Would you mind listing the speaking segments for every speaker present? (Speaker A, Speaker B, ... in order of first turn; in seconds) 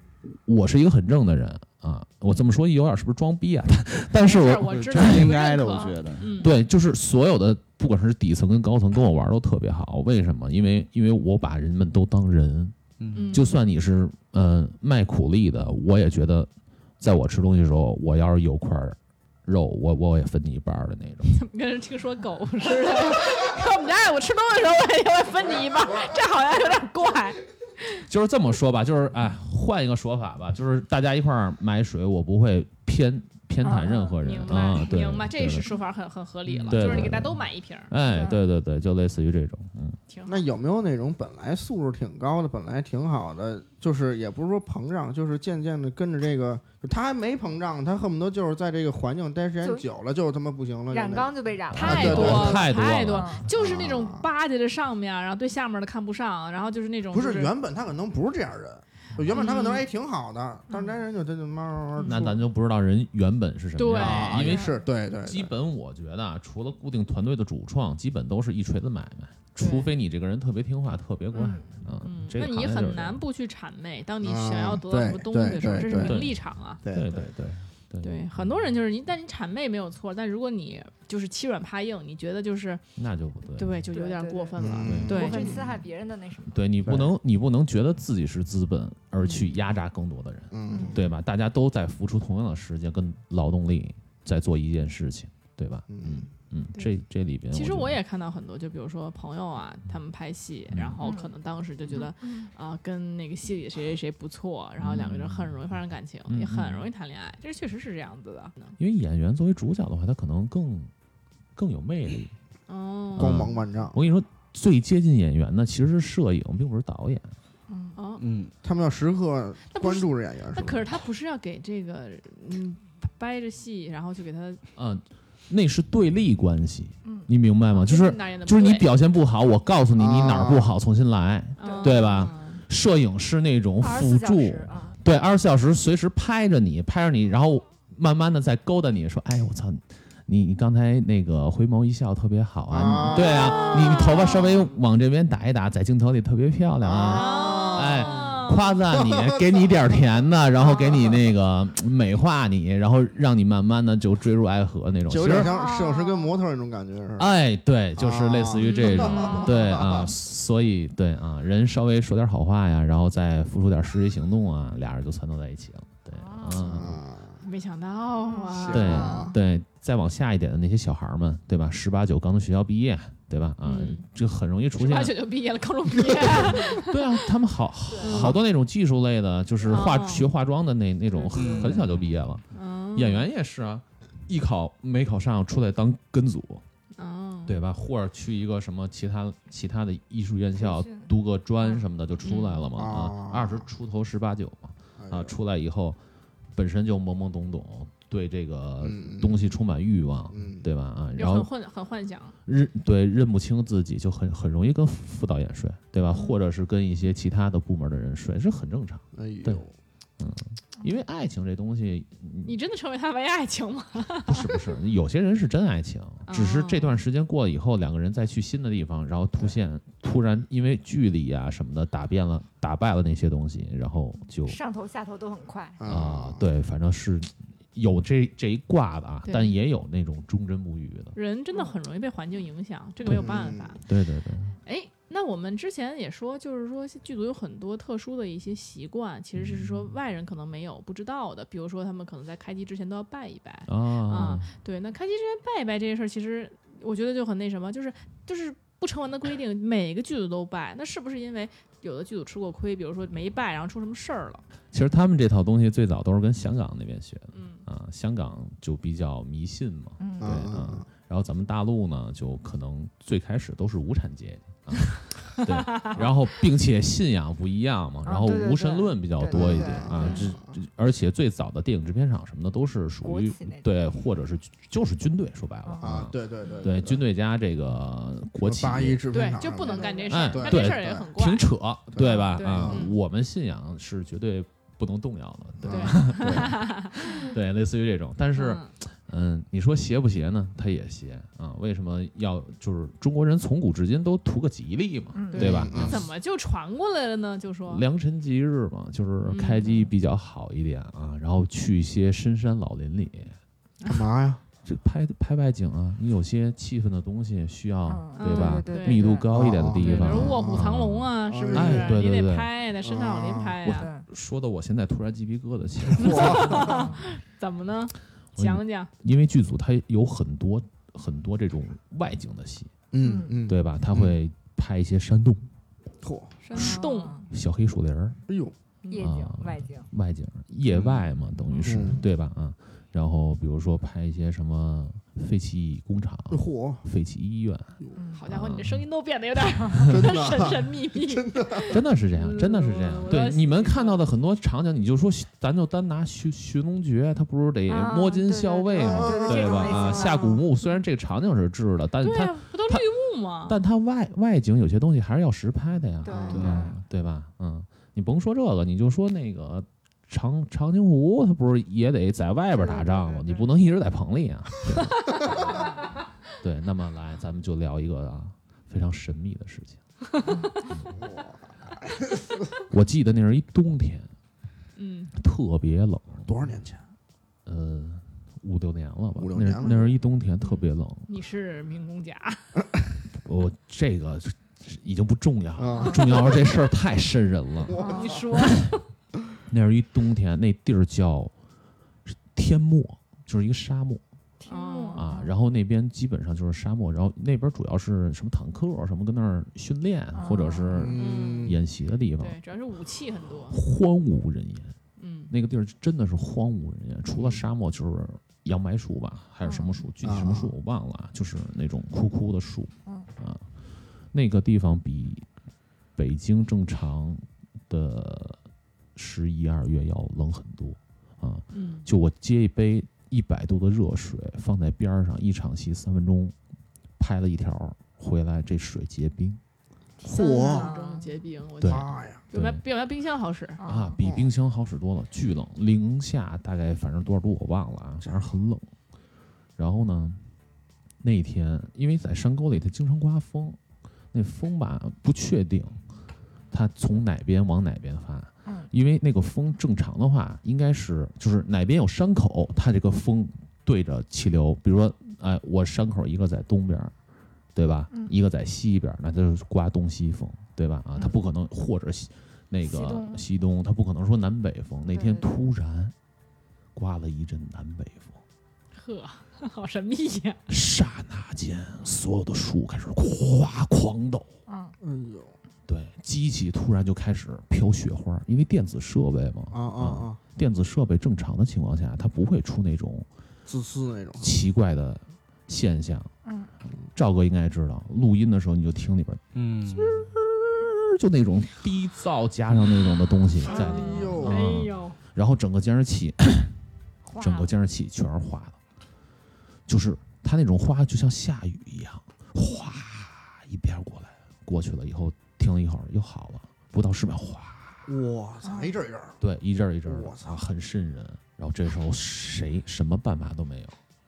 Speaker A: 0.2-5.3, 6.4-21.4, 28.1-35.7, 36.6-40.0, 51.7-53.4, 62.0-64.7, 65.2-73.2, 75.7-78.6, 83.0-83.8, 84.8-85.5, 86.5-98.0, 100.7-101.0, 104.8-105.6, 106.3-106.9, 108.8-110.9, 111.5-112.3, 113.1-117.3, 124.8-155.5, 157.2-167.0, 168.7-175.1, 176.2-182.4, 182.9-186.6, 187.4-196.0, 196.5-201.5, 202.4-209.6, 210.2-212.6, 214.3-224.6, 225.9-231.1, 233.0-234.5, 239.3-239.9, 243.7-244.5, 254.7-279.0, 280.1-296.1, 297.7-303.4, 304.6-312.5, 313.6-316.8, 318.4-322.7, 323.4-325.5, 327.3-328.2, 328.9-337.8, 338.3-338.8, 341.7-352.8, 353.4-365.4, 366.4-369.8, 370.6-370.9, 372.7-374.1, 375.1-376.3, 377.4-381.1, 383.1-387.8, 389.5-391.3, 392.1-394.0, 394.9-402.4, 403.5-404.8, 405.3-413.5, 414.1-415.3, 415.9-418.4, 418.9-426.3, 427.0-429.4, 431.6-432.6, 433.6-438.6, 439.6-440.2, 441.0-443.6, 444.1-445.8, 446.5-456.9, 457.5-465.9, 466.7-468.2, 470.5-474.3, 475.7-483.1, 484.2-486.1, 486.9-496.5, 497.2-498.6, 499.7-507.9, 509.2-513.8
Speaker B: 4.2-6.5, 13.1-13.6, 21.3-28.0, 33.7-37.9, 40.1-40.4, 51.8-57.5, 59.3-59.8, 62.0-62.2, 63.8-64.6, 69.6-69.9, 72.0-76.8, 78.0-82.8, 83.6-85.6, 89.2-89.4, 97.5-108.7, 112.7-113.5, 118.0-118.2, 119.7-124.6, 127.7-128.9, 131.6-132.6, 143.1-144.4, 147.1-148.7, 158.6-159.5, 167.4-169.2, 173.6-174.0, 174.8-177.0, 178.0-178.4, 179.7-180.3, 182.5-183.2, 187.0-187.6, 192.2-192.7, 201.2-202.3, 212.4-214.6, 216.3-216.9, 229.2-229.6, 231.1-233.8, 234.6-254.4, 257.3-257.6, 265.7-266.0, 270.0-270.3, 279.1-281.5, 282.0-282.9, 285.7-287.3, 288.3-288.7, 295.3-297.8, 299.2-299.7, 308.1-309.1, 309.8-313.9, 316.0-318.9, 326.4-327.2, 328.8-329.1, 338.1-344.0, 349.4-350.4, 352.0-353.6, 356.1-356.5, 374.8-375.1, 380.4-382.5, 387.8-388.8, 394.5-395.1, 400.9-401.5, 402.2-403.6, 405.0-405.3, 421.5-421.9, 430.0-433.6, 468.7-470.4, 493.5-495.0
Speaker C: 4.7-6.4, 13.0-13.3, 36.5-36.9, 118.2-118.5, 181.3-181.9, 356.3-356.7, 489.3-490.0
Speaker D: 33.6-34.0, 38.1-38.4, 49.6-49.9, 50.9-53.4, 59.3-59.7, 60.7-61.0, 71.3-71.7, 83.9-86.7, 90.7-90.9, 101.0-101.3, 101.9-102.5, 117.7-118.0, 131.6-132.4, 133.8-135.0, 147.3-148.3, 155.3-156.3, 159.1-159.4, 166.1-166.7, 168.3-169.3, 177.9-178.3, 181.3-181.8, 190.6-191.1, 224.4-225.8, 260.0-260.5, 268.0-270.3, 273.0-273.7, 275.6-276.0, 279.6-280.3, 295.1-295.6, 307.9-309.3, 313.7-314.0, 316.6-317.0, 323.0-323.4, 326.5-327.2, 328.9-329.9, 337.9-338.2, 347.7-350.4, 356.0-356.8, 362.6-363.4, 365.4-365.9, 387.8-388.1, 394.4-395.3, 400.1-400.9, 409.4-409.7, 430.0-431.1, 433.6-434.0, 462.6-463.2, 464.9-465.3, 474.5-474.8, 486.2-486.5, 493.4-494.2, 497.1-497.5, 508.4-508.7
Speaker E: 40.3-52.6, 53.5-54.3, 57.1-62.4, 63.9-65.5, 74.2-76.2, 76.8-77.2, 84.6-85.6, 86.8-87.1, 90.5-91.0, 95.9-96.3, 113.2-114.0, 118.6-120.9, 130.0-130.7, 142.7-143.5, 146.8-147.5, 148.9-149.4, 155.1-157.3, 157.9-160.1, 166.6-167.4, 168.6-169.3, 192.8-193.6, 195.0-195.3, 198.8-199.4, 200.3-200.7, 209.1-209.7, 225.8-226.4, 233.0-233.7, 260.2-260.8, 269.3-270.5, 275.8-277.0, 278.4-281.1, 281.9-282.8, 285.6-286.5, 295.4-296.0, 303.9-304.4, 309.3-311.9, 312.8-313.6, 315.9-316.8, 322.9-324.1, 326.0-326.3, 328.3-328.5, 331.6-332.0, 336.3-336.8, 339.9-341.6, 348.8-349.7, 371.0-372.3, 376.2-376.8, 379.1-379.9, 385.6-386.6, 387.6-388.2, 400.7-401.6, 410.0-410.5, 430.0-430.7, 431.6-432.2, 434.0-434.3, 474.8-475.3, 479.5-480.2, 483.4-484.3, 493.4-494.4, 507.9-509.2, 509.9-510.4